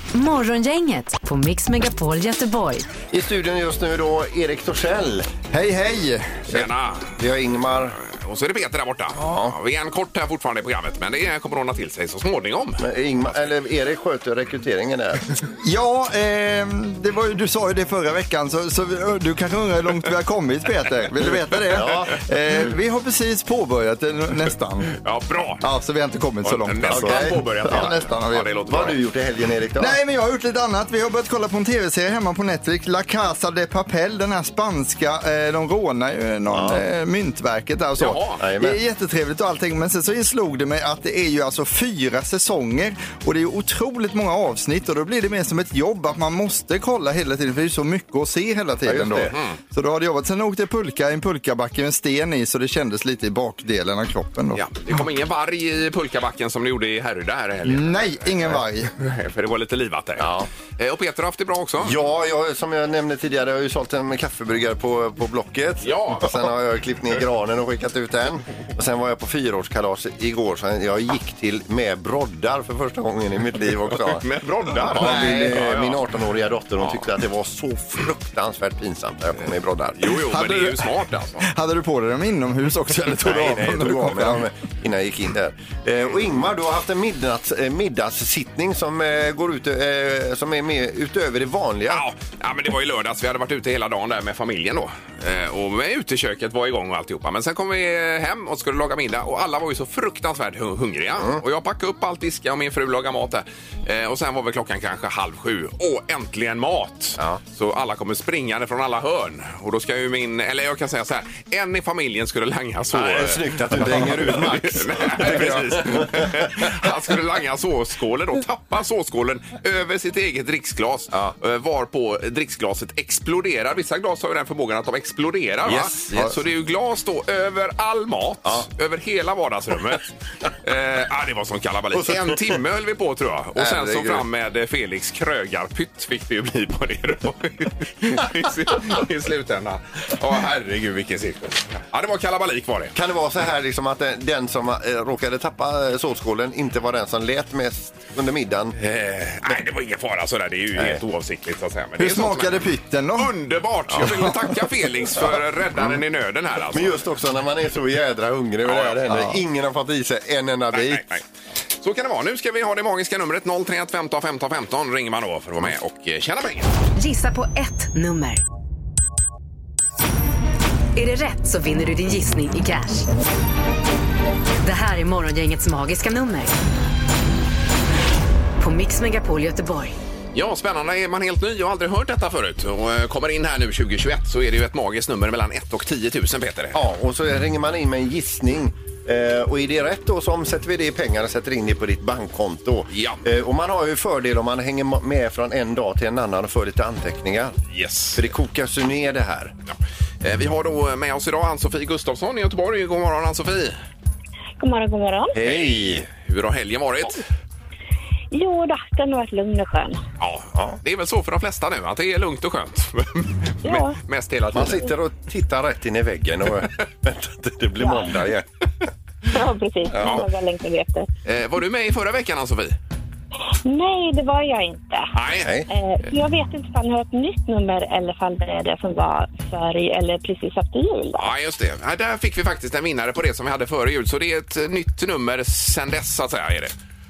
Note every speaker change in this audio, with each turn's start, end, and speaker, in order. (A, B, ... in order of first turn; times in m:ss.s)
0:00.1-0:02.9 A
0:03.1-0:05.3 B
0:05.5-0:06.4 C
0:06.5-0:07.1 D
0:06.5-0:08.0 B
0:08.0-0:12.8 D
0:09.2-0:09.5 B
0:12.8-0:15.3 B
0:15.6-0:24.9 C
0:21.7-0:22.2 B
0:25.0-0:25.6 D
0:25.6-0:28.5 C
0:26.4-0:29.0 D
0:26.9-0:27.9 B
0:28.7-0:30.0 B
0:29.8-0:54.6 C
0:36.5-0:36.8 B
0:38.0-0:38.4 D
0:38.4-0:38.8 B
0:48.8-0:49.4 B
0:49.3-0:49.6 D
0:54.5-1:02.0 D
0:57.6-0:58.9 C
1:00.2-1:00.5 B
1:01.8-1:14.2 B
1:05.8-1:06.5 D
1:13.9-1:16.0 D
1:14.8-1:20.0 B
1:14.9-1:15.6 C
1:16.8-1:17.0 D
1:19.4-1:21.5 D
1:20.3-1:20.9 C
1:21.4-1:24.4 C
1:23.2-1:32.0 B
1:31.9-2:22.9 D
1:52.9-1:56.8 B
2:05.6-2:06.3 B
2:11.9-2:12.5 B
2:13.6-2:14.2 B
2:22.9-2:28.8 B
2:28.8-2:37.0 D
2:30.8-2:31.0 B
2:32.0-2:33.3 C
2:33.9-2:34.3 B
2:35.1-2:36.0 B
2:36.7-2:41.0 B
2:38.6-2:39.1 D
2:39.1-2:39.4 C
2:40.7-2:41.2 D
2:41.8-2:46.7 D
2:47.0-2:48.4 A
2:50.9-2:53.1 A
2:54.6-2:56.5 A
2:58.6-3:00.0 A
3:00.3-3:06.8 D
3:06.7-3:17.6 B
3:12.9-3:13.2 D
3:17.7-3:18.2 D
3:18.1-3:19.5 B
3:19.7-3:23.8 D
3:24.6-3:25.3 E
3:25.3-3:26.1 B
3:25.4-3:27.2 D
3:28.3-3:30.0 E
3:30.2-3:34.9 D
3:33.6-3:34.0 E
3:34.5-3:38.4 B
3:37.8-3:38.1 E
3:39.3-3:41.1 E
3:39.9-3:40.2 B
3:40.0-3:40.2 D
3:41.2-3:42.8 D
3:43.6-3:45.1 E
3:45.1-3:45.5 D
3:45.4-3:45.7 B
3:45.7-3:51.3 E
3:51.2-3:56.7 D